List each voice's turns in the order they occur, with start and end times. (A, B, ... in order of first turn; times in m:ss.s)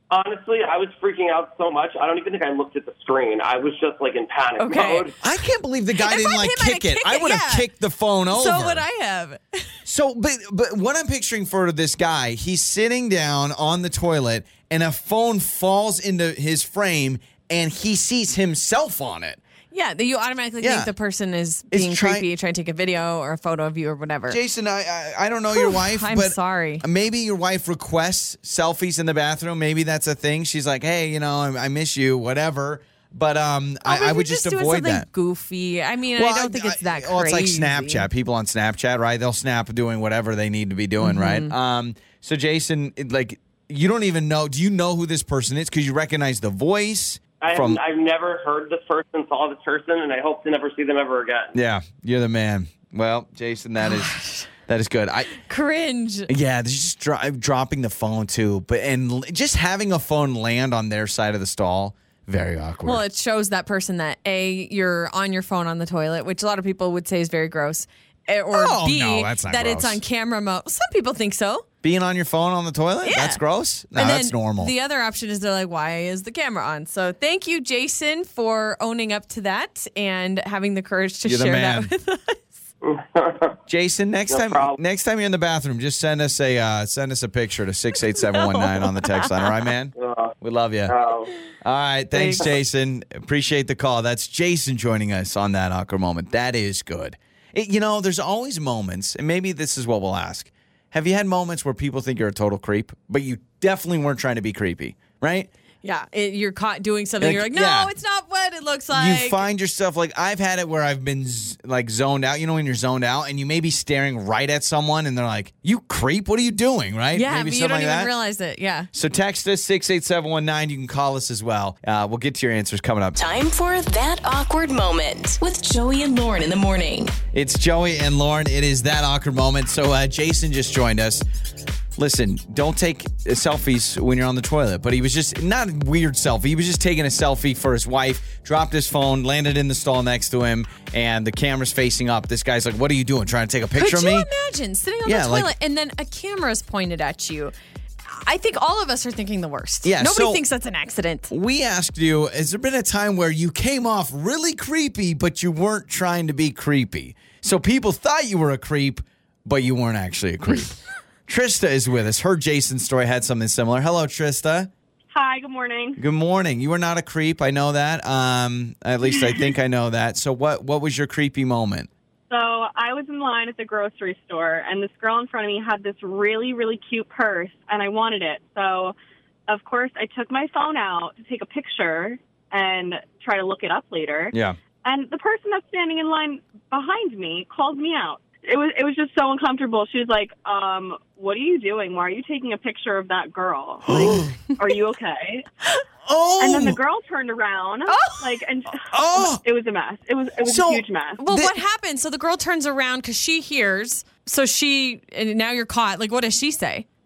0:00.1-0:05.2 A
0:04.6-0:05.1 B
0:05.2-0:08.8 C
0:06.0-0:07.7 B
0:08.3-0:09.7 B
0:09.9-0:19.4 C
0:19.7-0:24.4 B
0:20.6-0:20.9 C
0:21.7-0:22.3 C
0:24.3-0:35.1 C
0:25.5-0:26.8 B
0:33.8-0:38.1 B
0:36.2-0:47.8 C
0:41.0-0:41.5 B
0:47.4-0:51.6 A
0:51.5-0:55.3 C
0:53.8-0:54.5 B
0:55.4-0:56.3 B
0:56.3-1:03.0 C
1:02.8-1:11.6 B
1:08.5-1:10.0 C
1:11.8-1:14.7 C
1:13.0-1:13.4 B
1:14.0-1:22.6 B
1:21.2-1:21.9 C
1:22.8-1:23.6 A
1:23.7-1:31.0 C
1:24.3-1:24.8 A
1:28.1-1:29.5 B
1:30.0-1:30.3 A
1:30.9-1:31.3 A
1:31.6-1:45.5 C
1:32.1-1:32.5 B
1:45.8-1:49.4 B
1:47.2-1:47.9 C
1:48.9-1:58.1 C
1:57.1-1:58.9 B
1:58.9-2:03.2 C
2:03.2-2:07.2 D
2:07.3-2:11.2 C
2:12.0-2:24.3 C
2:23.8-2:27.5 B
2:25.0-2:25.5 C
2:28.1-2:31.3 B
2:29.8-2:30.4 C
2:31.3-2:40.8 C
2:41.3-2:44.7 C
2:45.1-2:46.0 E
2:46.0-2:51.9 C
2:52.3-2:59.0 E
2:59.5-3:15.5 E
3:04.3-3:04.6 C
3:13.9-3:14.4 C
3:16.0-3:16.8 C
3:16.4-3:21.2 E
3:17.9-3:18.4 B
3:18.8-3:19.4 C
3:20.4-3:21.6 C
3:21.2-3:26.9 B